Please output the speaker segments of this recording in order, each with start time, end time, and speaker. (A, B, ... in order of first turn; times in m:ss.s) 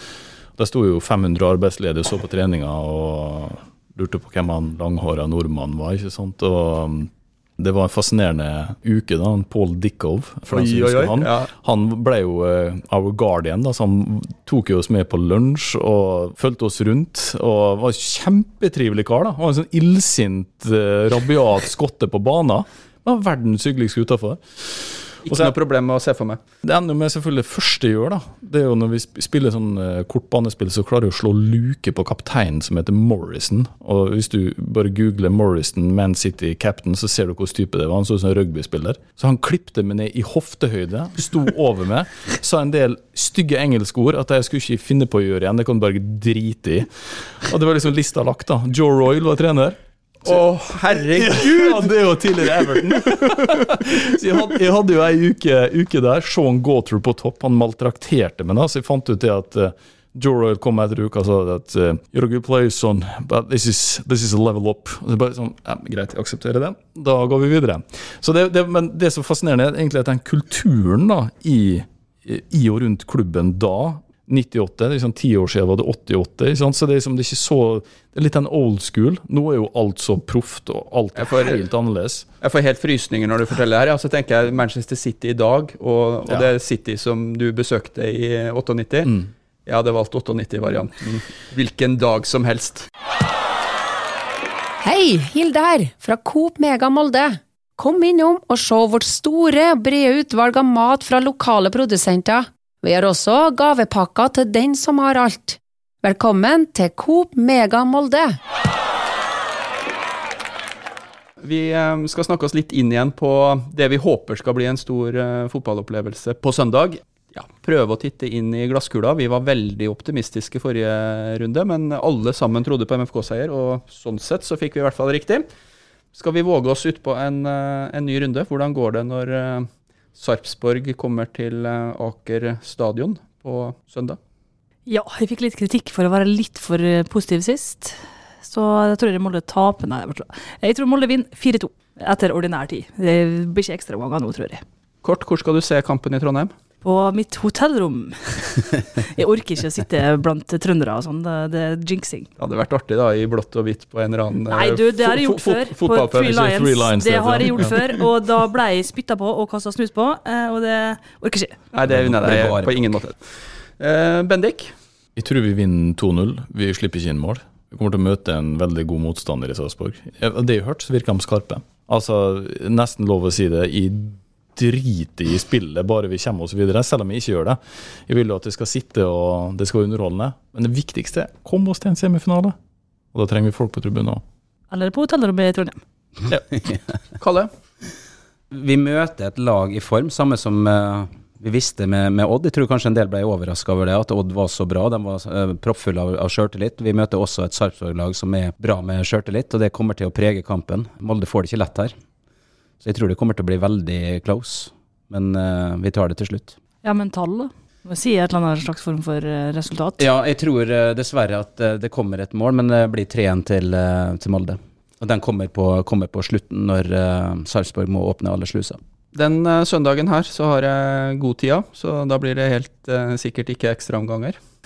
0:00.6-0:25.5 A
0:10.5-0:11.5 B
0:25.2-0:26.4 B
0:26.6-1:22.3 A
0:50.3-0:52.0 B
0:52.6-0:53.4 B
1:21.2-1:21.6 B
1:22.4-1:32.9 B
1:34.8-1:48.4 C
1:51.4-2:05.5 B
2:06.1-2:14.2 B
2:14.9-2:24.6 D
2:25.0-2:26.5 B
2:26.8-2:32.3 D
2:32.4-2:36.1 B
2:34.5-2:41.7 D
2:35.3-2:37.8 A
2:41.7-2:43.2 B
2:41.9-2:42.8 E
2:43.8-2:44.7 B
2:45.2-3:02.6 A
3:03.1-3:04.2 A
3:04.7-3:05.8 D
3:07.2-3:07.5 B
3:08.5-3:21.9 E
3:22.8-3:26.6 E
3:26.8-3:30.1 D
3:30.0-3:38.8 E
3:39.1-3:44.4 B